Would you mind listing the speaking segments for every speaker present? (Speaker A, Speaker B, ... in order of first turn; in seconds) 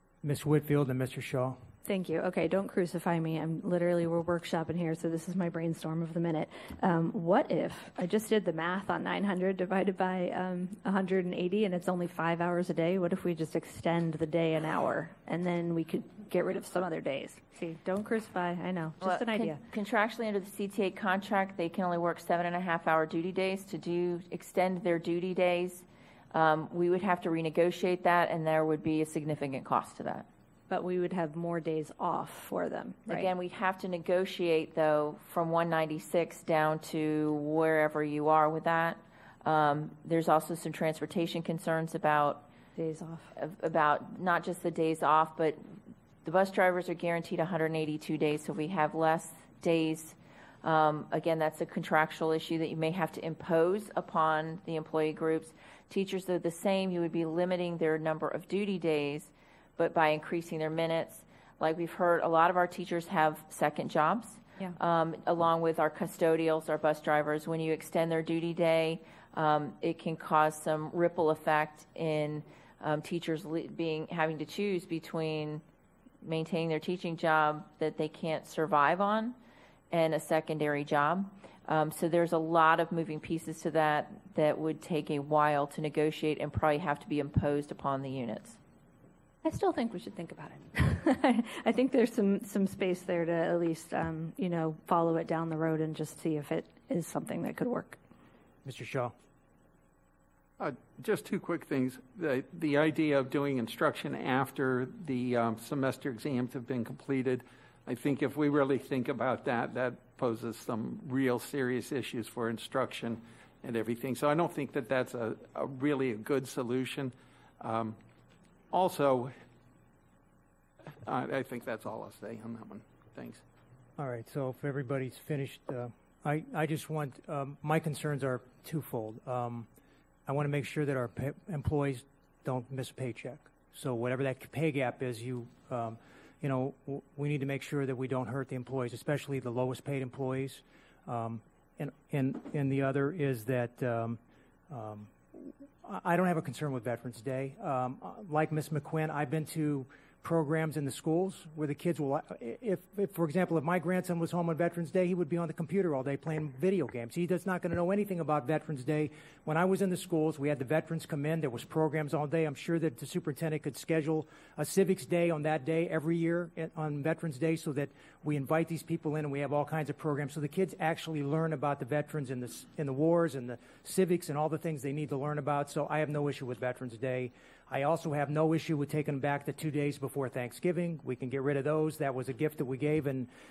Speaker A: 0.2-1.6, 98.7-99.1, 124.0-129.7, 130.3-183.3
Speaker B: 1.9-19.6, 30.7-33.3, 42.8-43.3, 89.4-98.0
Speaker C: 19.0-30.3, 33.1-42.5, 43.4-45.6, 46.2-75.6, 76.2-79.3, 79.9-88.6
Speaker D: 100.6-118.0, 118.7-119.3, 121.1-123.4